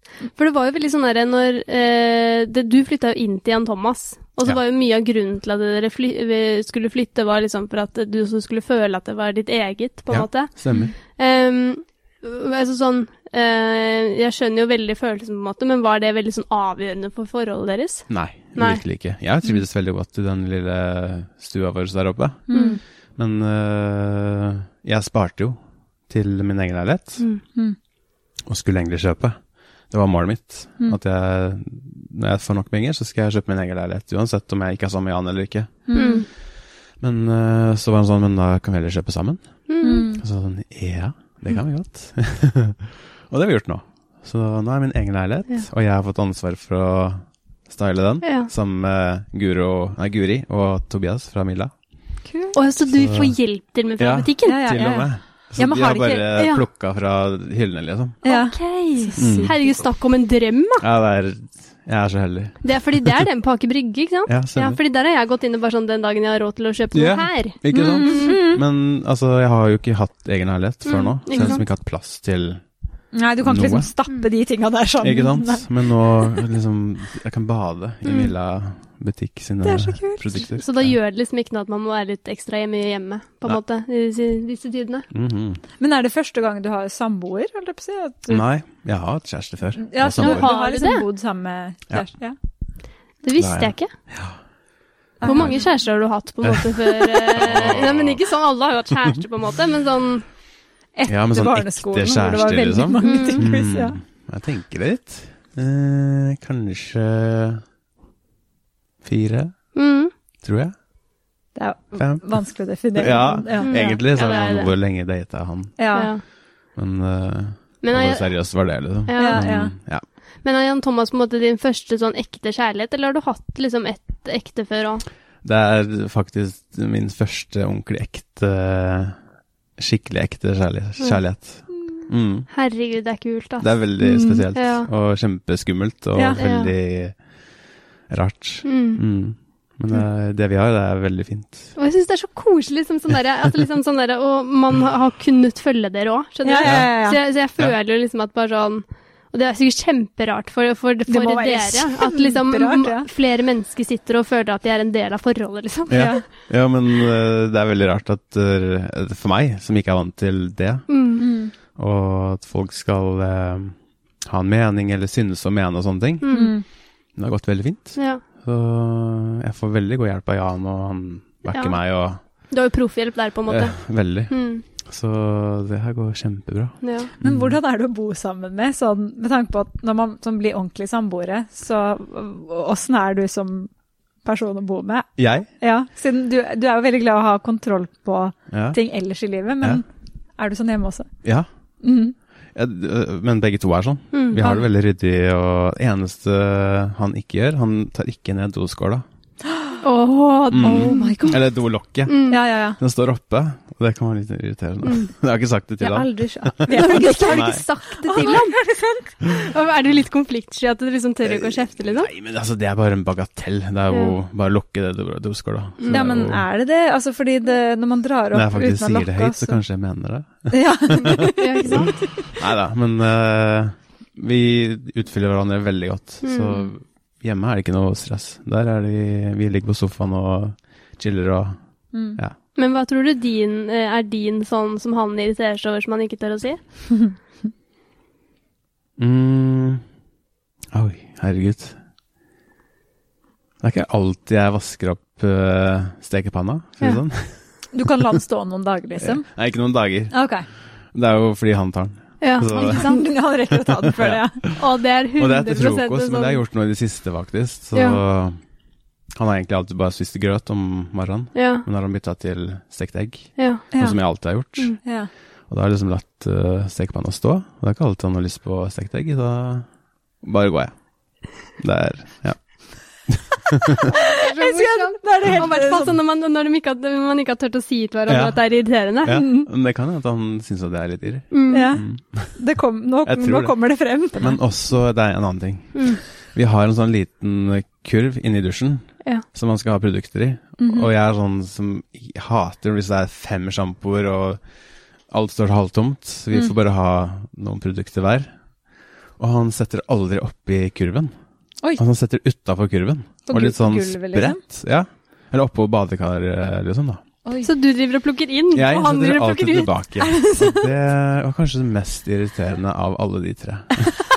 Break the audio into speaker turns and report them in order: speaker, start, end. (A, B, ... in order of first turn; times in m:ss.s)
0:00.2-0:18.8 A
0:10.1-0:10.9 B
0:18.1-0:22.6 B
0:22.5-0:22.8 C
0:22.5-0:22.8 A
0:23.2-0:25.6 B
0:26.1-0:27.2 B
0:28.4-0:36.1 B
0:35.9-0:36.2 C
0:35.9-0:36.2 A
0:37.0-0:39.5 B
0:39.7-0:40.1 A
0:39.8-0:40.2 C
0:40.2-0:51.7 B
0:48.2-0:48.5 A
0:52.3-0:52.6 C
0:52.5-0:54.7 A
0:52.8-0:53.3 B
0:54.0-0:58.2 B
0:54.4-0:56.3 C
0:56.3-0:56.6 A
0:58.2-0:59.6 C
0:58.2-1:00.8 A
0:59.2-0:59.6 B
1:00.8-1:03.2 B
1:02.6-1:08.4 A
1:04.3-1:04.8 B
1:06.9-1:12.6 B
1:07.7-1:08.6 C
1:10.8-1:11.6 A
1:13.1-1:16.4 C
1:13.4-1:13.9 B
1:15.0-1:20.9 B
1:18.0-1:18.3 A
1:19.6-1:20.4 C
1:20.4-1:25.1 A
1:25.1-1:25.6 B
1:25.8-1:28.4 C
1:28.3-1:30.5 B
1:29.8-1:32.4 C
1:30.2-1:31.0 A
1:33.2-1:33.9 A
1:33.4-1:34.4 B
1:35.2-1:35.6 C
1:35.2-1:40.3 A
1:35.3-1:35.6 B
1:36.4-1:38.2 B
1:41.0-1:44.0 C
1:41.1-1:47.6 B
1:43.0-1:43.4 A
1:49.0-1:49.6 B
1:49.7-1:50.1 A
1:50.4-1:50.7 B
1:51.5-1:54.0 C
1:52.0-1:56.1 B
1:53.5-1:54.7 A
1:55.8-1:56.1 C
1:55.9-1:56.2 A
1:56.7-2:00.0 B
1:57.8-1:59.8 A
1:59.1-1:59.7 C
2:00.4-2:05.0 A
2:05.4-2:09.2 B
2:09.8-2:12.5 B
2:12.5-2:14.9 A
2:13.6-2:17.2 B
2:16.1-2:16.4 C
2:16.4-2:16.7 A
2:18.1-2:21.7 B
2:18.6-2:19.0 A
2:21.8-2:36.2 A
2:26.4-2:27.2 C
2:26.6-2:26.9 B
2:31.1-2:33.1 C
2:35.9-2:40.8 B
2:35.9-2:36.2 C
2:40.9-2:41.2 A
2:41.2-2:41.5 C
2:41.8-2:46.5 B
2:46.2-2:46.5 A
2:46.3-2:46.6 C
2:47.1-2:52.2 B
2:48.0-2:48.2 A
2:51.5-2:51.8 A
2:52.5-2:54.6 A
2:53.5-2:57.6 B
2:56.8-2:57.1 A
2:57.2-3:03.7 C
3:04.2-3:09.9 C
3:05.2-3:05.5 B
3:08.5-3:08.8 B
3:10.4-3:11.1 C
3:11.8-3:12.1 C
3:12.5-3:19.0 B
3:14.1-3:14.4 A
3:19.8-3:21.2 A
3:20.5-3:27.6 B
3:20.6-3:21.4 C
3:22.0-3:22.4 A
3:22.3-3:22.8 C
3:24.8-3:25.1 A
3:25.8-3:29.1 C
3:26.7-3:28.7 A
3:29.3-3:32.1 A
3:31.2-3:36.4 B
3:33.9-3:34.2 A
3:35.9-3:39.6 C
3:38.3-3:41.8 B
3:40.5-3:42.3 C
3:41.2-3:42.0 A
3:42.4-3:51.6 B
3:46.2-3:46.7 A
3:51.9-3:52.2 C
3:52.6-3:56.9 A
3:59.0-3:59.8 B
4:00.7-4:01.8 B
4:03.6-4:07.4 B
4:07.7-4:09.3 C
4:09.0-4:10.3 B
4:10.1-4:10.4 C
4:10.9-4:13.0 B
4:12.2-4:13.0 A
4:12.5-4:14.4 C
4:13.5-4:14.6 B
4:14.6-4:16.4 A
4:15.2-4:18.4 B
4:17.7-4:18.0 A
4:19.2-4:24.8 B
4:21.3-4:21.6 A
4:23.4-4:23.8 A
4:23.7-4:24.0 C
4:24.8-4:25.1 C
4:25.5-4:29.7 B
4:30.2-4:30.7 B
4:31.4-4:33.8 B
4:33.8-4:36.0 C
4:33.9-4:39.2 A
4:38.1-4:38.4 B
4:39.0-4:42.4 B
4:39.1-4:39.5 C
4:41.3-4:41.7 A
4:41.5-4:44.4 C
4:43.0-4:43.6 B
4:44.1-4:54.4 B
4:45.7-4:46.0 A
4:50.6-4:50.9 C
4:55.1-4:58.3 B
4:59.2-5:01.1 B
5:01.8-5:07.0 B
5:03.3-5:04.4 C
5:07.2-5:07.5 C
5:07.4-5:09.7 A
5:08.5-5:13.9 B
5:10.0-5:10.7 C